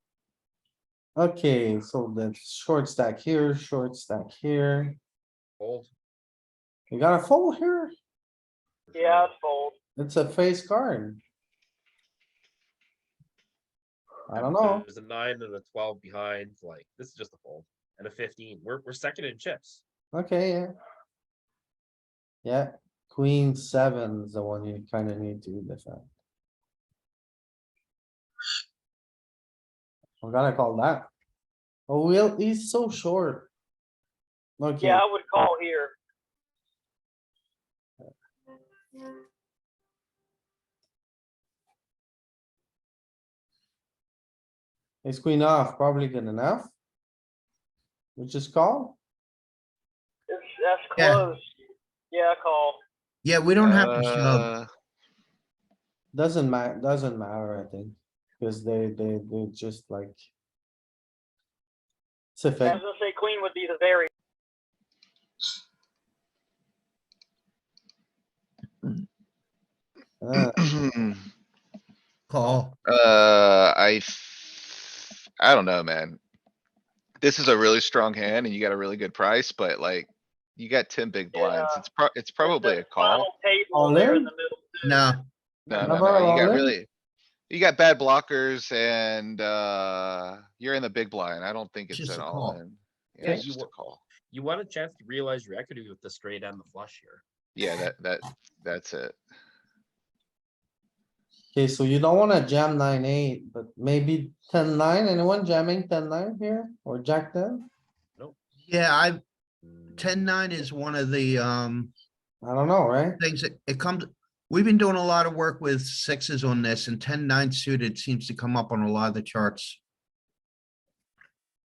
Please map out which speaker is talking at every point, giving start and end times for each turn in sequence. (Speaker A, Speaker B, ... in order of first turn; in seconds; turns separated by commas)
Speaker A: 1.2-5.0, Speaker B: 5.6-5.9, Speaker A: 6.9-7.9, Speaker B: 8.9-9.3, Speaker C: 8.9-9.8, Speaker A: 10.0-11.2, Speaker A: 14.3-14.8, Speaker B: 14.3-19.8, Speaker A: 20.1-20.7, Speaker A: 22.4-26.1, Speaker A: 30.2-31.1, Speaker A: 31.9-33.5, Speaker A: 34.6-35.0, Speaker C: 34.8-36.0, Speaker A: 45.0-46.7, Speaker A: 48.2-49.0, Speaker C: 50.3-51.4, Speaker D: 51.0-51.3, Speaker C: 52.1-52.8, Speaker D: 53.2-54.5, Speaker E: 53.6-54.7, Speaker A: 56.1-60.2, Speaker A: 62.4-62.8, Speaker C: 62.6-64.1, Speaker A: 70.2-70.6, Speaker E: 70.5-71.2, Speaker D: 72.3-72.8, Speaker E: 72.8-76.2, Speaker E: 77.2-83.3, Speaker C: 81.3-81.8, Speaker C: 82.4-85.1, Speaker A: 83.7-84.3, Speaker D: 84.8-85.2, Speaker E: 85.7-86.9, Speaker A: 85.8-86.7, Speaker E: 87.5-94.0, Speaker D: 91.9-92.6, Speaker B: 93.2-93.7, Speaker B: 94.3-97.2, Speaker E: 97.6-99.2, Speaker A: 101.5-107.7, Speaker D: 108.7-109.2, Speaker D: 110.0-111.9, Speaker A: 112.4-113.2, Speaker D: 113.2-119.8